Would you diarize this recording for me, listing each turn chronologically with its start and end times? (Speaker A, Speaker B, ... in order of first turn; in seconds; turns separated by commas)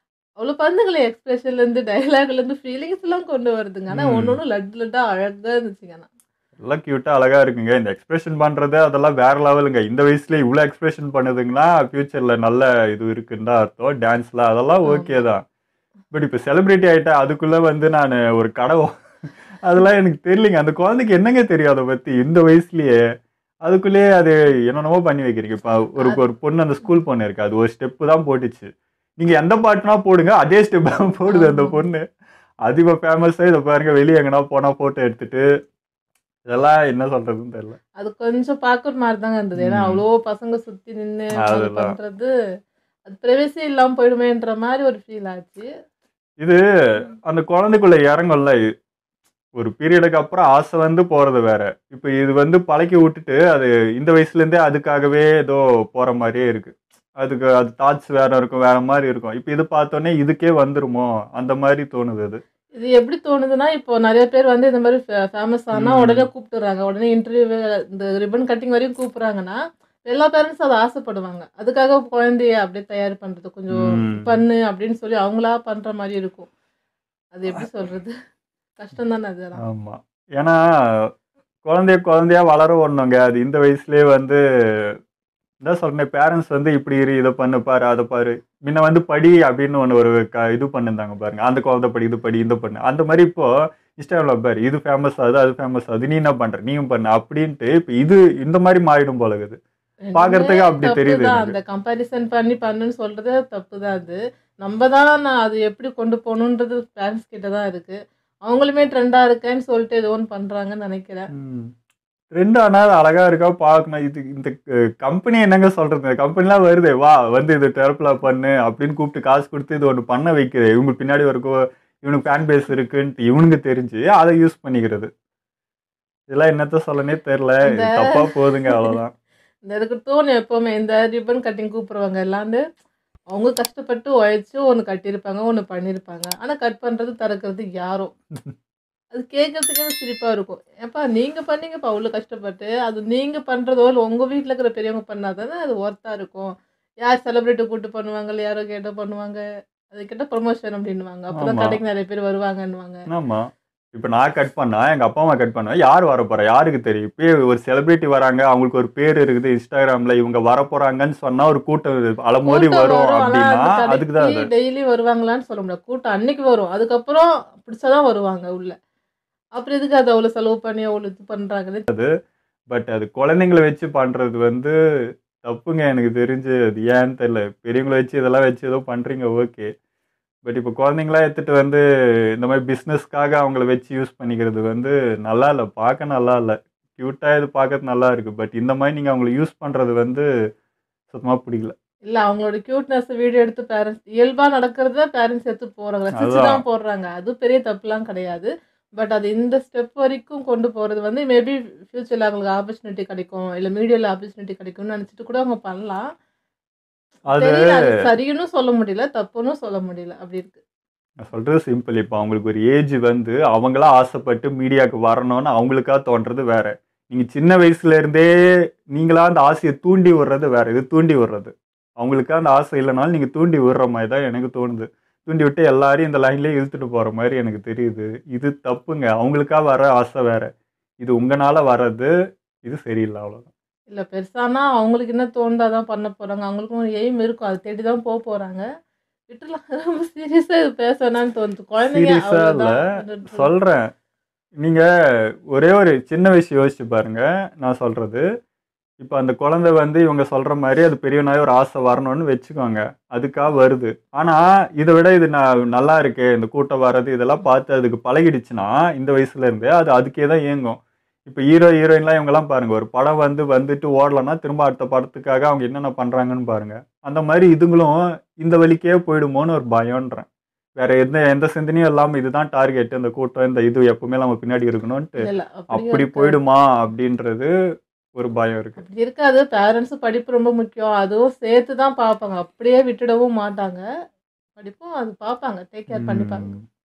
Speaker A: 0.4-6.1, Speaker B: 3.9-4.4, Speaker B: 6.6-15.4, Speaker A: 14.8-15.2, Speaker B: 16.1-18.9, Speaker B: 19.6-23.0, Speaker B: 23.6-32.0, Speaker A: 26.0-26.2, Speaker A: 31.3-31.9, Speaker B: 32.6-35.4, Speaker B: 36.5-37.8, Speaker A: 38.0-42.3, Speaker B: 39.5-40.0, Speaker B: 41.4-42.0, Speaker A: 43.0-45.7, Speaker B: 47.2-48.6, Speaker B: 49.6-62.4, Speaker A: 62.7-76.5, Speaker B: 65.7-66.3, Speaker B: 73.7-74.4, Speaker A: 77.3-78.1, Speaker A: 78.8-79.6, Speaker B: 79.6-81.1, Speaker B: 81.7-85.0, Speaker B: 85.6-99.6, Speaker A: 100.0-111.3, Speaker B: 100.1-101.6, Speaker B: 111.3-111.7, Speaker B: 112.3-125.1, Speaker B: 126.3-129.1, Speaker A: 127.7-129.0, Speaker A: 129.7-132.6, Speaker A: 133.3-138.1, Speaker A: 139.1-153.0, Speaker B: 151.3-151.8, Speaker B: 153.1-164.5, Speaker A: 162.4-168.8, Speaker A: 169.5-171.8, Speaker B: 172.7-174.7, Speaker B: 175.4-179.7, Speaker B: 180.4-181.8, Speaker B: 182.4-190.3, Speaker B: 191.1-191.7, Speaker A: 192.0-206.1, Speaker B: 196.1-196.6, Speaker B: 207.3-207.8, Speaker A: 207.3-210.6, Speaker B: 211.2-218.3, Speaker B: 218.9-230.5, Speaker B: 231.0-232.1, Speaker B: 232.6-233.5, Speaker A: 233.9-238.6, Speaker A: 239.3-243.5, Speaker B: 241.8-243.9, Speaker B: 245.5-248.2, Speaker B: 249.0-270.2, Speaker B: 270.8-277.5, Speaker A: 275.2-276.4, Speaker B: 278.1-278.8, Speaker A: 278.8-283.8, Speaker A: 284.6-286.5, Speaker B: 285.9-286.6